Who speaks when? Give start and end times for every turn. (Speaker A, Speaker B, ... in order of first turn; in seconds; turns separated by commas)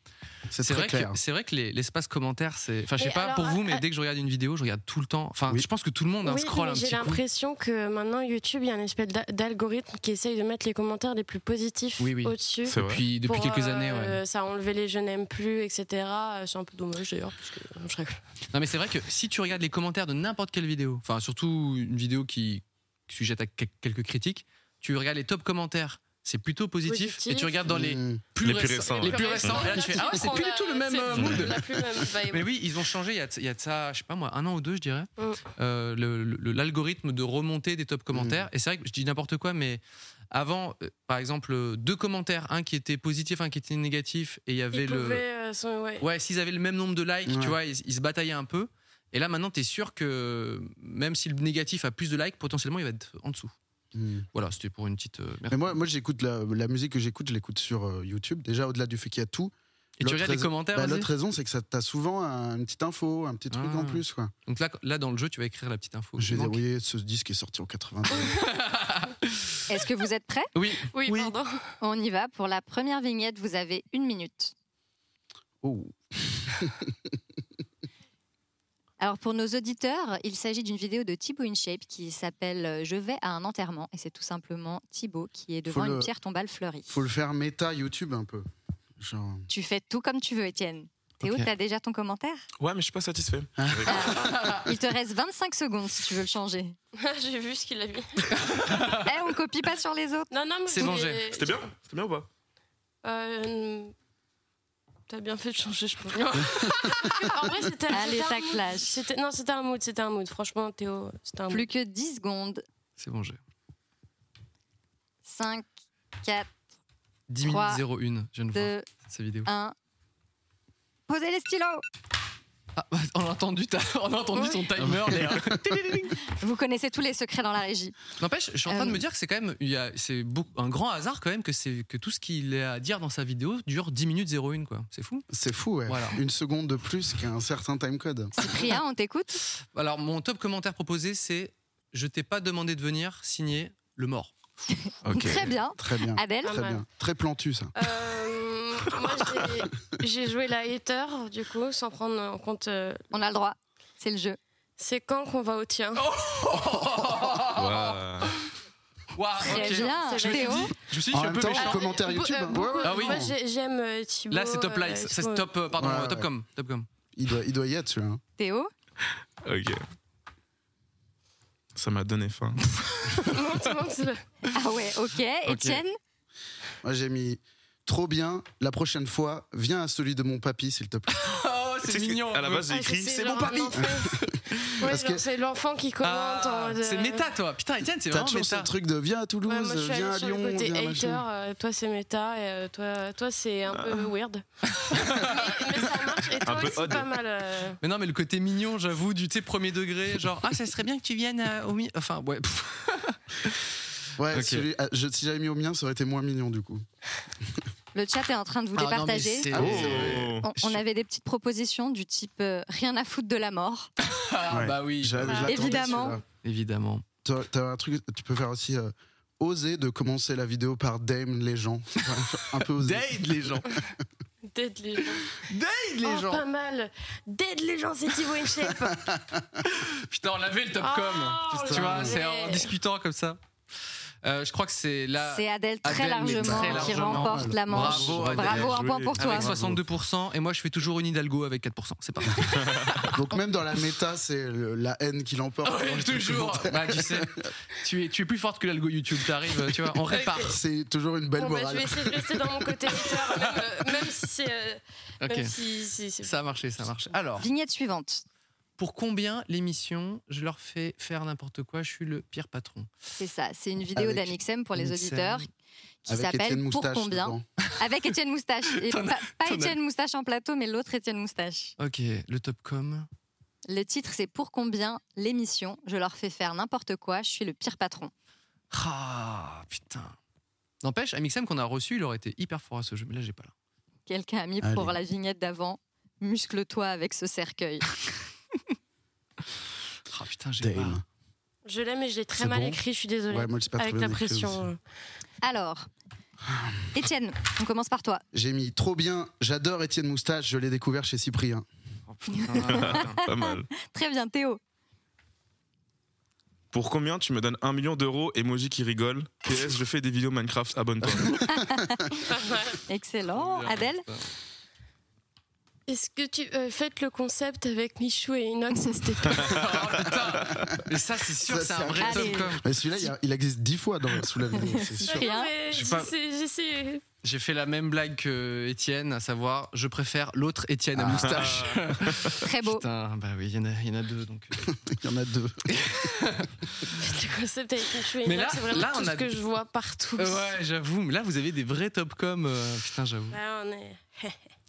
Speaker A: 0.5-1.2, Speaker B: 0.6-7.2, Speaker C: 3.0-3.8, Speaker C: 6.2-18.2, Speaker B: 12.0-14.2, Speaker D: 12.7-13.0, Speaker B: 18.5-31.6, Speaker C: 26.9-27.6, Speaker A: 27.7-28.2, Speaker D: 28.4-29.8, Speaker C: 28.9-32.5, Speaker D: 31.1-31.4, Speaker B: 32.3-45.2, Speaker A: 38.1-38.5, Speaker C: 44.7-46.0, Speaker B: 46.0-53.5, Speaker A: 47.2-47.6, Speaker A: 53.9-54.3, Speaker B: 54.3-55.7, Speaker A: 55.5-64.3, Speaker B: 60.0-61.1, Speaker B: 63.5-66.6, Speaker A: 66.2-68.4, Speaker B: 68.3-69.6, Speaker E: 69.7-70.5, Speaker B: 70.5-71.3, Speaker C: 70.9-71.6, Speaker E: 71.8-74.5, Speaker A: 75.6-77.0, Speaker E: 79.0-86.9, Speaker A: 85.7-86.1, Speaker A: 86.9-88.5, Speaker A: 89.0-89.5, Speaker E: 89.5-92.4, Speaker B: 91.2-91.5, Speaker D: 92.6-94.4, Speaker A: 93.6-94.5, Speaker E: 93.9-96.7, Speaker B: 94.2-94.6, Speaker C: 97.0-98.2, Speaker B: 98.3-99.0, Speaker E: 98.8-100.3, Speaker C: 100.3-101.6, Speaker B: 100.7-101.2, Speaker D: 101.3-102.3, Speaker C: 103.0-103.9, Speaker C: 105.1-111.7, Speaker B: 106.4-107.1, Speaker E: 107.9-109.0, Speaker E: 111.5-112.6, Speaker B: 113.0-113.4, Speaker E: 115.2-115.7, Speaker E: 116.2-116.5, Speaker B: 117.3-119.5, Speaker E: 117.4-117.8, Speaker E: 118.5-118.9, Speaker E: 119.5-119.7, Speaker E: 121.1-121.8, Speaker B: 122.8-126.2, Speaker E: 126.2-128.0, Speaker B: 128.2-135.2, Speaker E: 128.7-129.0, Speaker A: 135.3-138.3, Speaker B: 135.9-136.2, Speaker E: 138.4-139.4, Speaker B: 139.6-144.7, Speaker D: 145.0-145.6, Speaker E: 145.1-146.6, Speaker A: 145.8-147.7, Speaker C: 146.4-146.8, Speaker C: 147.8-153.0, Speaker E: 153.1-154.4, Speaker C: 154.8-156.0, Speaker B: 155.9-158.0, Speaker D: 157.5-158.3, Speaker B: 159.1-161.8, Speaker E: 159.4-160.7, Speaker C: 159.4-160.7, Speaker A: 161.1-163.3, Speaker C: 161.5-165.5, Speaker B: 162.8-163.2, Speaker B: 164.3-166.9, Speaker A: 165.8-166.3, Speaker A: 167.1-168.2, Speaker E: 168.4-168.7, Speaker D: 169.4-169.8, Speaker D: 171.7-172.6, Speaker C: 173.2-174.2, Speaker E: 174.5-176.0, Speaker B: 175.4-175.8, Speaker A: 176.8-181.2, Speaker B: 181.1-182.7, Speaker D: 181.9-183.8, Speaker C: 182.7-184.1, Speaker A: 183.8-184.2, Speaker B: 184.1-184.8, Speaker C: 184.8-187.3, Speaker A: 184.8-185.2, Speaker B: 186.0-188.7, Speaker A: 188.1-191.2, Speaker C: 189.5-197.8, Speaker D: 193.7-194.1, Speaker B: 194.6-195.5, Speaker D: 196.4-197.1, Speaker B: 197.8-203.7, Speaker A: 204.2-206.8, Speaker B: 204.3-204.7, Speaker E: 207.9-209.6, Speaker B: 208.7-210.8, Speaker D: 209.5-210.5, Speaker A: 209.5-210.2, Speaker E: 210.4-213.9, Speaker B: 214.0-217.0, Speaker A: 214.5-216.2, Speaker C: 215.3-215.6, Speaker E: 215.4-216.2, Speaker A: 217.2-223.3, Speaker B: 222.6-223.7, Speaker C: 224.5-225.4, Speaker B: 225.4-226.4, Speaker C: 226.0-229.0, Speaker A: 228.8-229.6, Speaker B: 229.6-233.4, Speaker C: 230.8-232.7, Speaker A: 231.5-232.2, Speaker B: 234.2-243.2, Speaker E: 235.2-239.5, Speaker A: 236.4-238.7, Speaker D: 237.7-239.6, Speaker A: 239.4-239.8, Speaker D: 242.5-243.1, Speaker A: 243.1-247.5, Speaker B: 245.6-250.5, Speaker C: 250.1-250.5, Speaker A: 250.4-252.6, Speaker C: 251.4-256.4, Speaker B: 255.2-255.5, Speaker B: 256.2-257.5, Speaker E: 257.4-258.2, Speaker B: 258.8-262.9, Speaker E: 263.2-265.4, Speaker A: 263.9-264.4, Speaker B: 264.8-265.4, Speaker E: 266.1-271.7, Speaker A: 266.1-267.4, Speaker B: 268.7-269.7, Speaker B: 271.8-273.1, Speaker E: 273.7-278.1, Speaker B: 278.7-280.2, Speaker B: 280.8-283.5, Speaker E: 284.1-287.9, Speaker A: 284.6-285.0, Speaker B: 290.1-291.0, Speaker A: 290.6-291.0, Speaker C: 291.6-294.8, Speaker A: 292.4-292.8, Speaker A: 293.3-294.6, Speaker E: 295.4-295.9, Speaker A: 296.5-296.9, Speaker E: 296.9-298.2, Speaker A: 298.3-301.6, Speaker B: 302.1-303.2, Speaker E: 302.4-304.6, Speaker D: 302.6-303.7, Speaker D: 306.7-311.4, Speaker E: 311.5-312.2, Speaker C: 312.3-312.8, Speaker E: 312.9-314.1, Speaker B: 313.3-314.3, Speaker C: 315.9-319.6, Speaker B: 319.4-322.6, Speaker A: 321.4-325.2, Speaker E: 322.0-322.6, Speaker E: 324.5-325.5, Speaker C: 325.1-327.0, Speaker B: 325.7-326.1, Speaker B: 327.2-334.7, Speaker A: 330.9-331.7, Speaker D: 331.2-332.4, Speaker E: 332.4-332.8, Speaker A: 334.6-335.7, Speaker B: 335.7-337.0, Speaker C: 337.0-340.5, Speaker B: 338.2-339.4, Speaker B: 340.2-343.4, Speaker C: 343.3-344.5